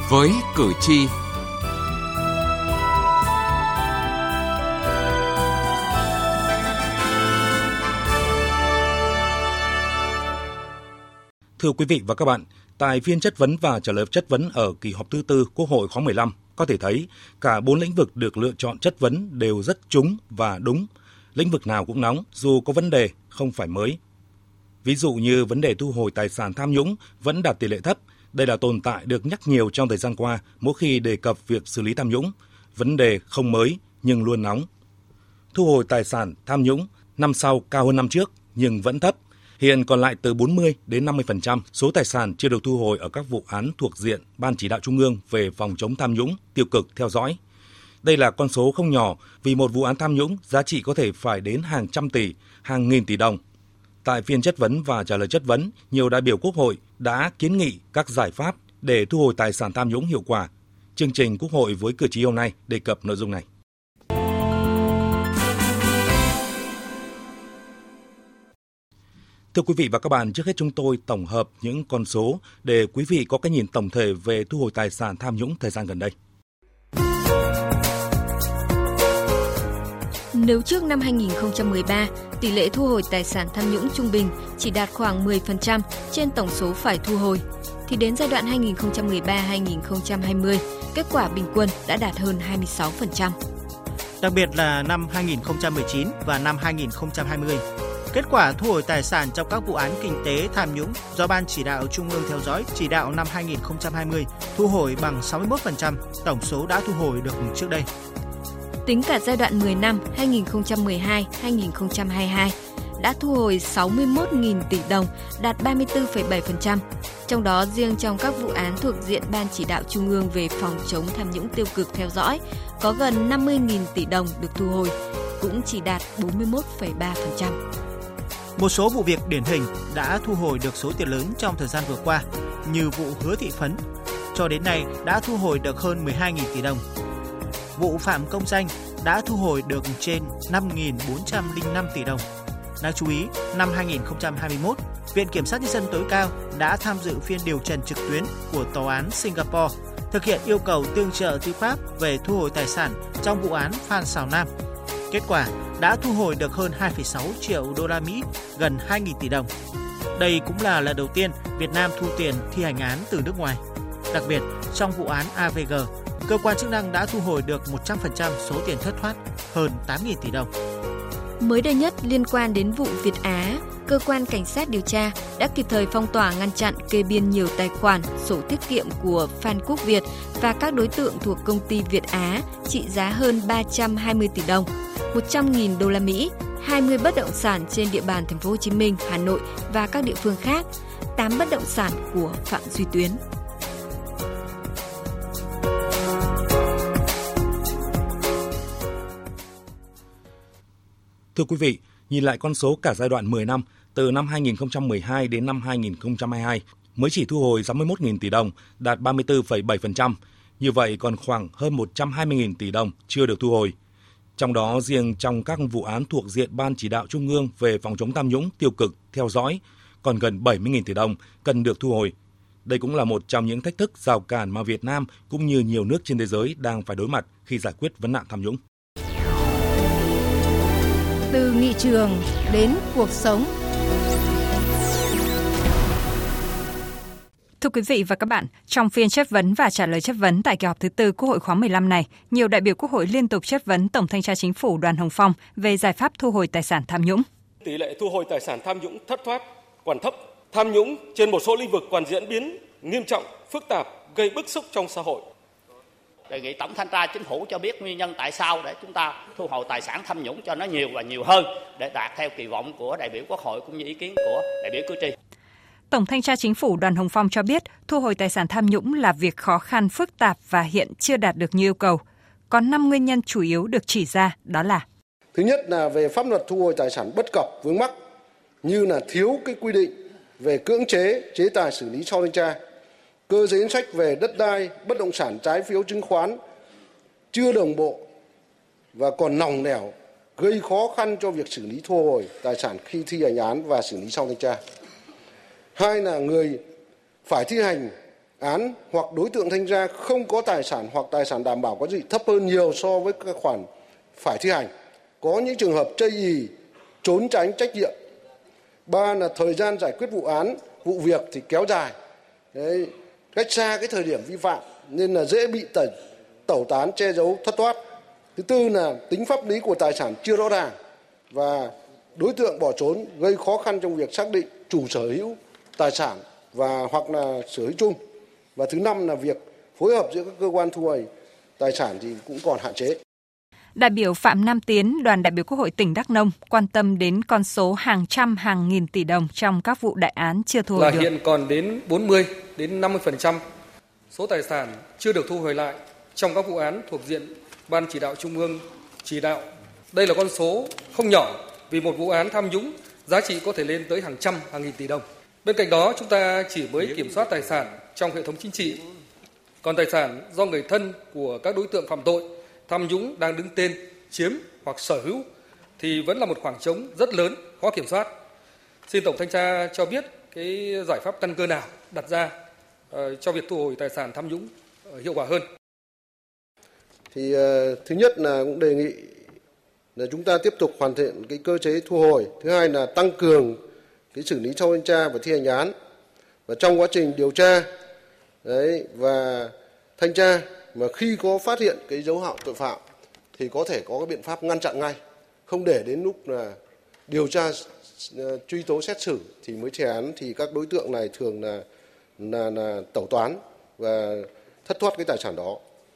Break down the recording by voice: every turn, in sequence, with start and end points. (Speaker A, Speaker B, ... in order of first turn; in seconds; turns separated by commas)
Speaker A: 11.6-24.0, Speaker A: 24.8-34.7, Speaker A: 35.5-47.4, Speaker A: 48.0-53.4, Speaker A: 54.0-63.4, Speaker A: 69.5-76.1, Speaker B: 80.3-93.3, Speaker C: 94.2-107.9, Speaker B: 108.8-127.6, Speaker C: 128.6-136.8, Speaker C: 137.7-142.3, Speaker C: 142.8-154.5, Speaker C: 155.1-159.5, Speaker C: 160.1-170.5, Speaker B: 171.4-190.6, Speaker B: 191.2-193.2, Speaker A: 201.3-213.7, Speaker A: 214.4-222.1, Speaker A: 222.7-228.6, Speaker D: 231.4-233.4, Speaker E: 237.6-247.2, Speaker F: 247.6-249.3, Speaker F: 249.9-255.2, Speaker G: 256.3-265.1, Speaker E: 265.9-274.8, Speaker H: 275.3-277.9, Speaker H: 278.6-282.6, Speaker H: 283.3-286.4, Speaker H: 287.3-288.0, Speaker H: 288.9-294.6, Speaker H: 295.7-296.6, Speaker H: 297.2-303.6, Speaker H: 304.2-304.7, Speaker H: 305.2-306.5, Speaker H: 307.0-307.9, Speaker H: 308.9-311.9, Speaker H: 312.5-315.8, Speaker H: 316.5-317.8, Speaker H: 318.4-320.7, Speaker H: 321.3-327.9, Speaker H: 328.6-331.1, Speaker H: 331.6-332.9, Speaker E: 333.8-341.1, Speaker I: 340.7-343.4, Speaker I: 344.1-358.8, Speaker I: 359.6-365.2, Speaker I: 365.8-368.1, Speaker I: 368.9-372.3, Speaker I: 372.9-375.5, Speaker H: 377.2-379.0, Speaker H: 380.0-383.6, Speaker H: 384.1-385.7, Speaker H: 386.6-387.6, Speaker H: 388.5-389.5, Speaker H: 390.0-392.8, Speaker B: 393.3-393.7, Speaker H: 393.5-394.9, Speaker H: 395.5-396.5, Speaker B: 397.1-397.3, Speaker H: 397.1-397.5, Speaker H: 398.2-401.6, Speaker H: 402.2-405.6